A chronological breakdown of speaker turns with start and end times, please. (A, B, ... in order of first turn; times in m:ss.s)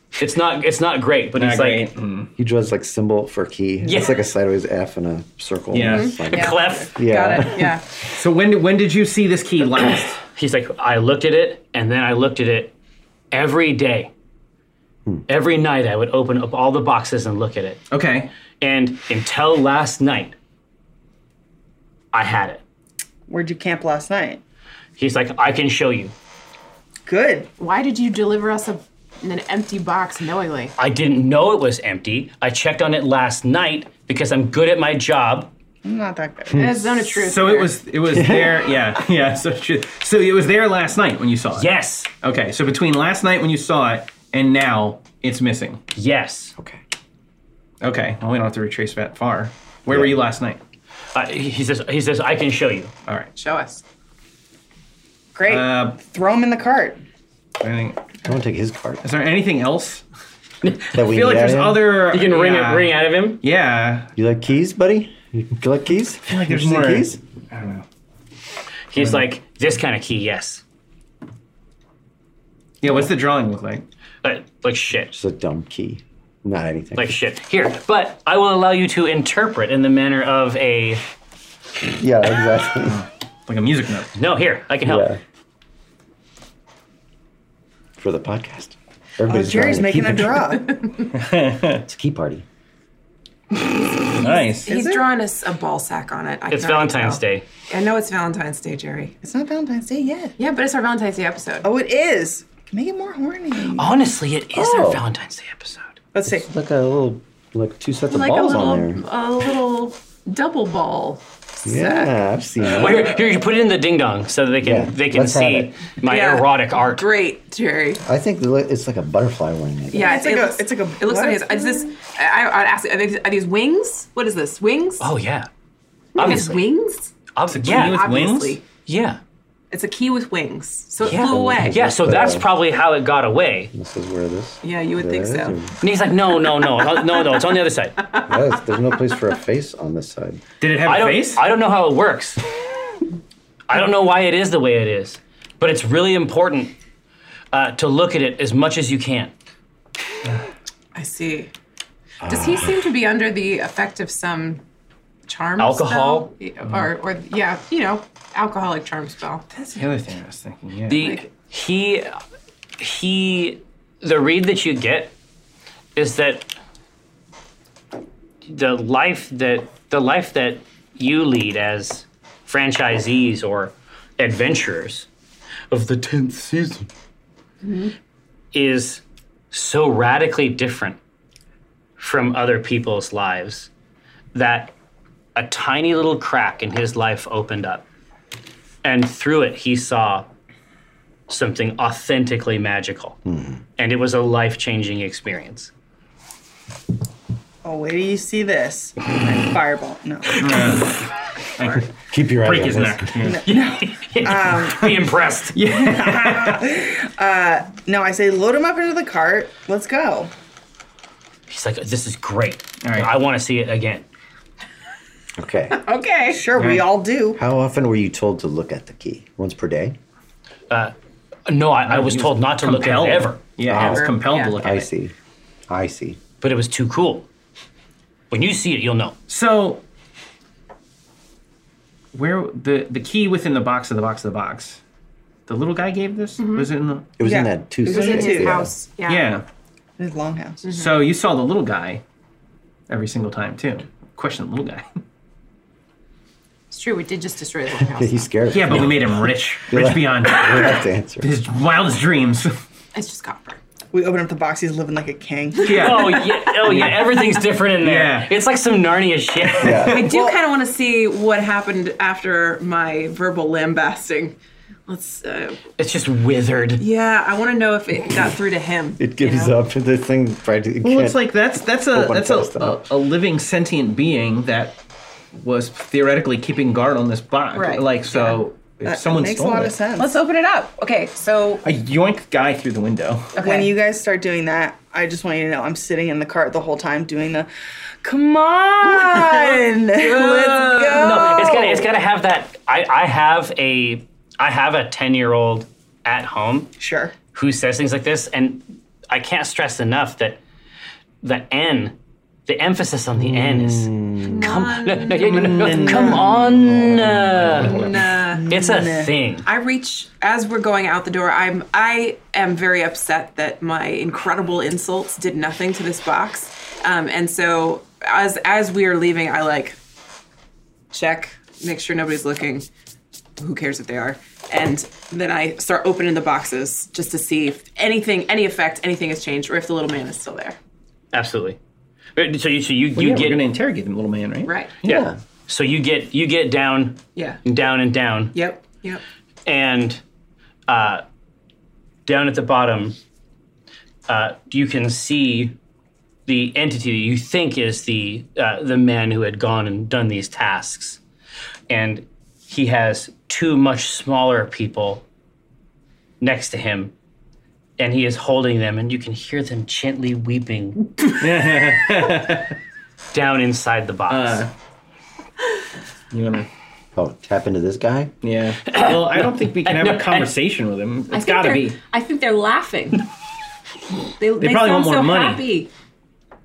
0:00.2-0:01.9 A
0:01.4-0:02.3 B
0:02.4-0:07.8 C
0:03.8-0:04.2 A
0:05.7-0:06.2 B
0:05.9-0:07.8 D
0:06.3-0:07.0 A
0:08.1-0:10.2 B
0:10.2-0:12.7 A
0:13.3-0:14.1 A
0:15.3-0:17.8 A
0:17.9-0:18.3 B
0:18.6-0:20.4 A
0:22.1-0:22.6 A
0:23.3-0:24.4 E
0:25.0-0:26.1 A
0:27.0-0:27.5 E
0:27.6-0:30.7 D
0:30.8-0:35.5 A
0:35.8-0:36.8 E
0:36.5-0:36.8 C
0:36.5-0:37.8 D
0:37.1-0:45.8 B
0:38.1-0:38.7 C
0:41.5-0:42.1 A
0:45.9-0:46.5 A
0:47.8-0:50.6 B
0:49.9-0:50.2 C
0:51.1-0:52.9 A
0:53.4-0:53.8 D
0:55.3-0:57.0 E
0:55.4-0:56.0 B
0:57.6-0:58.1 B
0:58.2-0:59.0 C
0:59.0-1:00.0 B
1:00.6-1:00.9 A
1:00.9-1:01.9 C
1:01.0-1:04.1 B
1:02.0-1:03.4 A
1:04.2-1:07.2 C
1:06.3-1:07.8 B
1:08.9-1:10.6 A
1:12.8-1:13.8 B
1:14.2-1:15.1 A
1:15.1-1:17.2 C
1:17.0-1:21.0 A
1:21.8-1:23.0 C
1:22.8-1:24.1 B
1:24.1-1:25.1 A
1:24.8-1:25.2 C
1:28.0-1:30.6 C
1:29.3-1:30.9 E
1:31.1-1:31.8 B
1:31.9-1:32.4 C
1:34.0-1:39.1 D
1:34.1-1:34.7 B
1:34.7-1:35.0 E
1:36.5-1:37.4 A
1:39.2-1:40.3 E
1:40.4-1:41.7 D
1:41.6-1:43.9 E
1:43.7-1:45.9 A
1:44.5-1:45.0 C
1:46.1-1:46.5 E
1:46.2-1:49.0 C
1:48.1-1:52.1 D
1:51.6-1:53.1 C
1:52.6-1:57.1 A
1:54.6-1:55.8 C
1:56.0-1:58.0 D
1:58.0-2:00.2 C
1:59.9-2:05.1 D
2:00.0-2:01.9 E
2:05.0-2:05.5 A
2:06.1-2:06.6 A
2:06.1-2:08.6 D
2:07.3-2:08.0 A
2:07.5-2:08.6 B
2:08.8-2:09.2 A
2:09.7-2:11.8 D
2:11.0-2:12.5 C
2:11.0-2:13.7 A
2:13.7-2:15.7 C
2:14.6-2:15.6 D
2:15.8-2:18.0 A
2:18.2-2:20.4 C
2:20.6-2:21.4 B
2:20.8-2:22.4 A
2:23.7-2:26.7 A
2:27.5-2:29.3 A
2:30.9-2:31.5 D
2:32.2-2:32.8 C
2:32.2-2:34.6 D
2:35.3-2:39.6 D
2:35.6-2:36.3 A
2:39.6-2:41.1 B
2:40.9-2:42.2 A
2:41.0-2:41.2 D
2:42.8-2:45.1 A
2:46.0-2:46.5 A
2:48.4-2:55.1 A
2:55.7-2:56.9 A
2:57.6-2:57.9 D
2:58.5-3:01.0 A
3:02.0-3:03.7 A
3:04.3-3:04.7 A
3:05.3-3:07.8 A
3:08.8-3:10.3 A
3:11.3-3:13.2 A
3:13.2-3:13.6 C
3:13.8-3:15.7 A
3:17.6-3:20.8 E
3:20.4-3:21.0 B
3:21.6-3:23.5 B
3:22.1-3:23.2 C
3:23.2-3:24.9 E
3:23.3-3:25.6 A
3:25.5-3:26.7 B
3:25.8-3:30.3 E
3:31.5-3:34.0 A
3:32.8-3:33.1 B
3:35.4-3:35.9 C
3:35.7-3:36.5 D
3:36.3-3:37.4 E
3:36.6-3:36.9 B
3:37.3-3:40.0 C
3:41.5-3:43.4 A
3:41.8-3:44.9 B
3:43.6-3:45.1 C
3:43.7-3:44.5 D
3:45.7-3:46.2 C
3:46.4-3:47.2 A
3:48.3-3:49.2 A
3:49.3-3:49.8 B
3:52.1-3:54.8 B
3:55.5-3:57.1 B
3:56.4-3:56.7 D
3:57.2-3:58.7 C
3:57.2-3:58.7 E
3:57.8-3:59.3 D
3:59.0-3:59.4 B
4:00.0-4:00.6 E
4:00.6-4:00.9 D
4:00.7-4:02.0 B
4:02.9-4:04.8 B
4:06.7-4:08.3 D
4:07.9-4:11.3 C
4:08.5-4:12.5 B
4:12.9-4:13.6 D
4:13.9-4:16.1 E
4:15.6-4:17.2 B
4:15.7-4:19.8 A
4:15.8-4:16.5 D
4:17.8-4:18.3 B
4:19.6-4:20.1 C
4:19.8-4:25.6 D
4:19.8-4:20.4 E
4:25.8-4:26.8 A
4:26.8-4:29.6 D
4:29.0-4:31.2 C
4:30.8-4:34.8 B
4:31.9-4:32.8 C
4:35.3-4:39.8 B
4:37.5-4:38.4 D
4:38.8-4:40.1 E
4:40.0-4:41.6 D
4:41.6-4:43.4 B
4:43.3-4:43.7 D
4:43.4-4:47.5 E
4:48.0-4:51.9 E
4:49.0-4:51.3 D
4:50.9-4:56.7 A
4:56.8-4:57.1 E
4:57.3-5:00.4 A
5:01.2-5:07.7 A
5:03.2-5:04.6 C
5:04.2-5:06.1 D
5:05.2-5:08.1 B
5:07.6-5:08.5 D
5:08.2-5:09.1 E
5:08.5-5:09.5 A
5:09.4-5:19.8 D
5:20.9-5:22.6 D
5:23.4-5:30.6 D
5:31.1-5:31.6 A
5:32.2-5:33.4 A
5:32.9-5:35.1 B
5:34.4-5:34.7 D
5:34.8-5:35.1 C
5:35.5-5:38.4 A
5:37.1-5:37.4 D
5:38.3-5:39.0 D
5:39.4-5:40.0 A
5:40.7-5:41.0 A
5:42.0-5:43.0 A
5:44.1-5:45.5 A
5:46.2-5:51.0 A
5:51.7-5:55.0 A
5:56.2-5:56.9 A
5:57.8-6:00.9 A
6:01.2-6:02.5 B
6:03.1-6:04.5 A
6:04.1-6:04.5 B
6:06.1-6:06.5 B
6:07.0-6:08.1 C
6:08.2-6:11.8 B
6:08.7-6:10.3 A
6:11.1-6:13.1 D
6:14.2-6:15.7 D
6:14.4-6:15.5 B